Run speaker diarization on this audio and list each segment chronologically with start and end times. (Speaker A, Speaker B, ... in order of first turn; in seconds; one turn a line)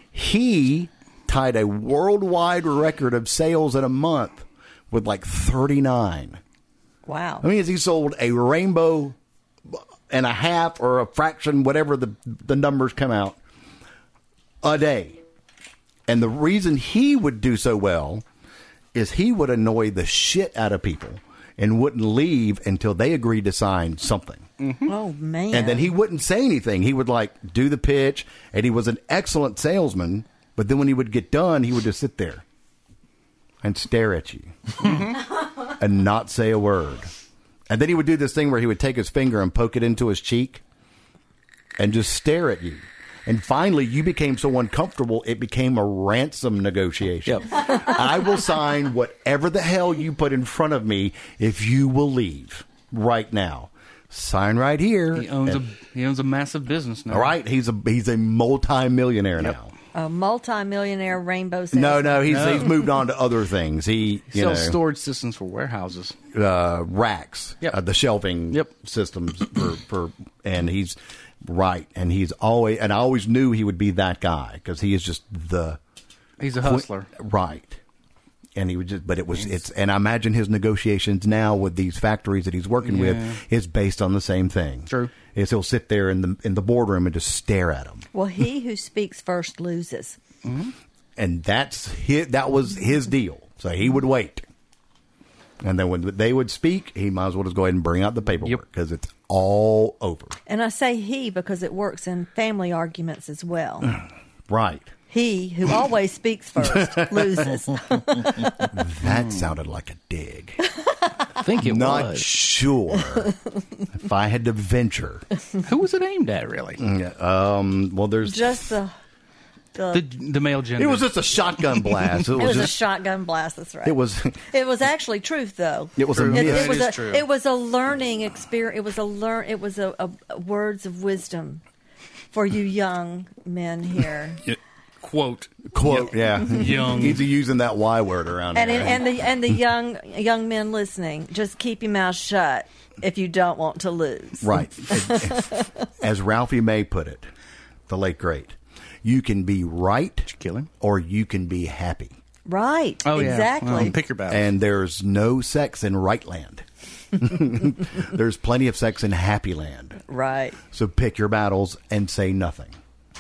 Speaker A: 0.1-6.4
Speaker B: 7.0-7.5
Speaker A: 7.4-9.2
Speaker A: 9.7-13.4
Speaker A: 14.6-15.2
Speaker A: 16.1-18.2
Speaker A: 18.9-24.5
Speaker C: 24.6-24.9
Speaker B: 24.9-25.9
Speaker A: 25.5-32.4
Speaker A: 33.6-34.9
Speaker C: 34.8-35.2
Speaker A: 35.7-37.1
Speaker A: 37.7-40.6
Speaker A: 41.8-55.6
Speaker C: 47.3-47.9
Speaker C: 55.1-57.3
Speaker A: 57.1-59.7
Speaker B: 59.9-62.5
Speaker A: 61.7-64.8
Speaker C: 62.3-62.8
Speaker C: 64.3-66.1
Speaker A: 66.3-75.8
Speaker C: 76.4-77.1
Speaker A: 76.6-77.8
Speaker A: 78.5-88.0
Speaker C: 82.8-83.4
Speaker C: 84.9-85.1
Speaker B: 88.1-90.2
Speaker C: 90.4-90.7
Speaker A: 91.2-94.5
Speaker A: 95.6-100.4
Speaker B: 100.5-104.0
Speaker A: 104.5-104.9
Speaker B: 105.1-108.7
Speaker A: 106.7-107.4
Speaker A: 108.7-110.6
Speaker C: 109.0-109.3
Speaker C: 111.4-112.3
Speaker A: 111.6-113.3
Speaker A: 114.0-115.2
Speaker C: 115.6-116.8
Speaker A: 116.8-118.6
Speaker B: 118.2-118.9
Speaker B: 119.7-120.0
Speaker C: 119.9-122.1
Speaker A: 120.8-122.8
Speaker B: 122.3-131.6
Speaker A: 123.8-124.4
Speaker A: 126.0-126.8
Speaker C: 126.1-127.2
Speaker B: 132.3-134.4
Speaker C: 134.4-137.3
Speaker A: 135.7-139.1
Speaker B: 138.5-145.7
Speaker A: 144.4-147.2
Speaker A: 147.9-152.1
Speaker C: 150.3-150.7
Speaker B: 152.5-153.9
Speaker C: 153.0-154.5
Speaker A: 154.3-160.0
Speaker B: 160.1-160.6
Speaker A: 160.7-162.7